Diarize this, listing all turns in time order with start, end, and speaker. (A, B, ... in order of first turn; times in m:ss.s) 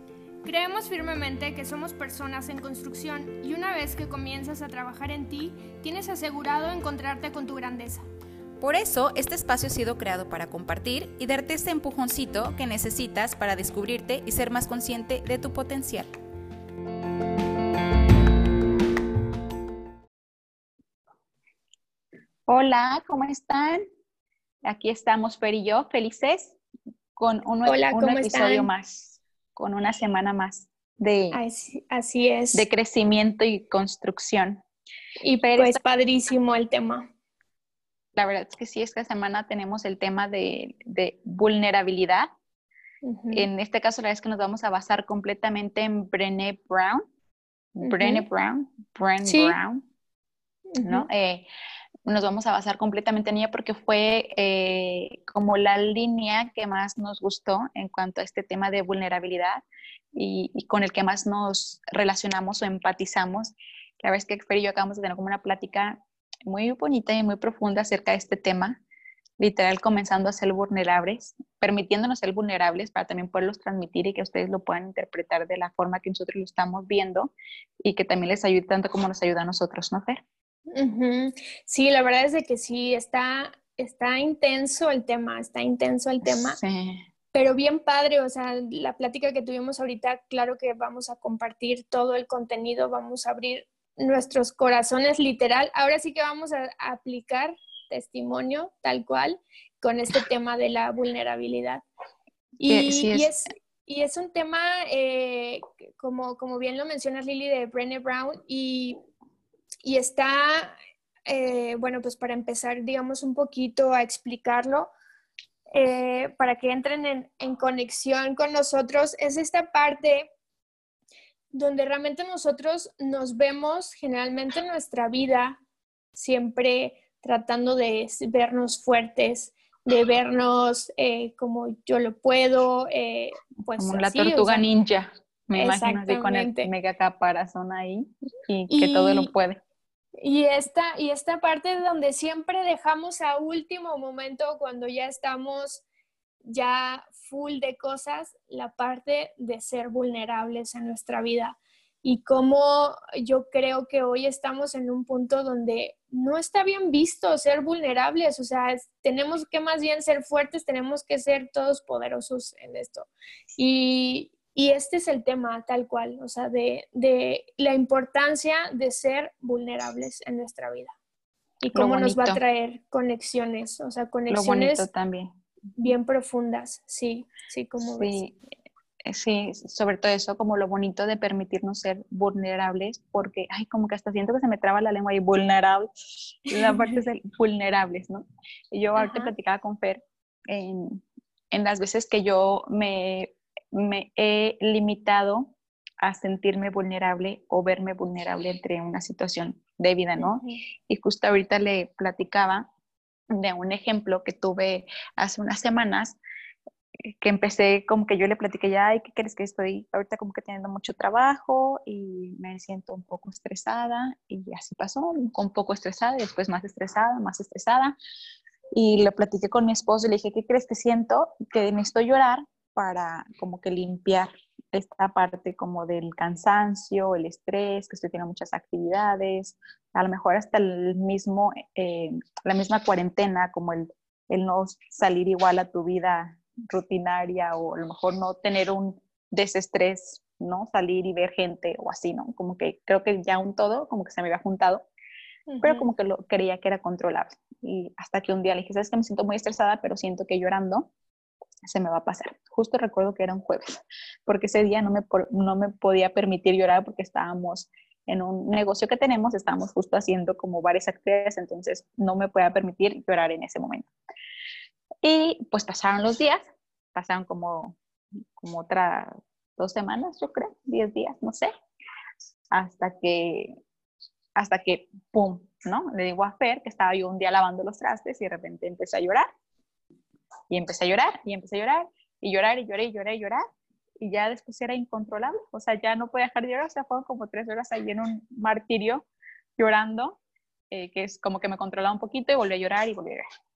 0:00.4-0:08.0 A
0:08.6-0:16.1 B
0:22.5-0:23.8 C
0:24.6-0:26.6 C
0:27.2-0:31.4 C
0:27.6-0:28.7 A
0:31.3-0:32.6 A
0:32.5-0:34.6 C
0:35.2-0:37.1 A
0:35.4-0:35.8 C
0:38.1-0:42.3 C
0:43.0-0:43.5 A
0:43.3-0:47.0 C
0:47.8-0:49.8 C
0:47.8-0:48.3 A
0:49.2-0:49.6 A
0:50.7-0:51.1 A
0:50.8-0:51.5 C
0:52.1-1:08.8 C
1:09.4-1:20.2 C
1:20.7-1:26.6 A
1:26.2-1:27.0 C
1:27.3-1:41.8 A
1:42.6-1:49.0 A
1:42.6-1:43.3 C
1:49.8-1:50.8 A
1:51.3-1:54.9 A
1:55.7-2:00.3 A
2:01.5-2:05.6 A
2:06.1-2:14.6 A
2:13.8-2:19.6 C
2:15.6-2:16.7 A
2:18.7-2:19.3 A
2:20.2-2:25.8 A
2:26.4-2:50.9 A
2:51.6-2:54.8 A
2:51.7-2:52.4 C
2:54.3-2:55.3 C
2:55.8-2:58.2 A
2:58.0-2:58.4 C
2:59.0-3:05.9 C
3:06.4-3:22.7 C
3:06.6-3:07.0 A
3:09.0-3:09.3 A
3:20.2-3:20.6 A
3:23.3-3:26.2 C
3:27.0-3:38.0 C
3:38.7-4:04.8 C
4:05.5-4:05.9 A
4:05.6-4:10.9 C
4:11.6-4:23.9 C
4:25.0-4:27.8 C
4:28.4-4:31.5 C
4:32.5-4:33.6 C
4:34.4-4:39.3 C
4:40.5-4:43.4 C
4:44.0-4:49.1 C
4:49.6-4:50.2 C
4:50.7-4:53.2 C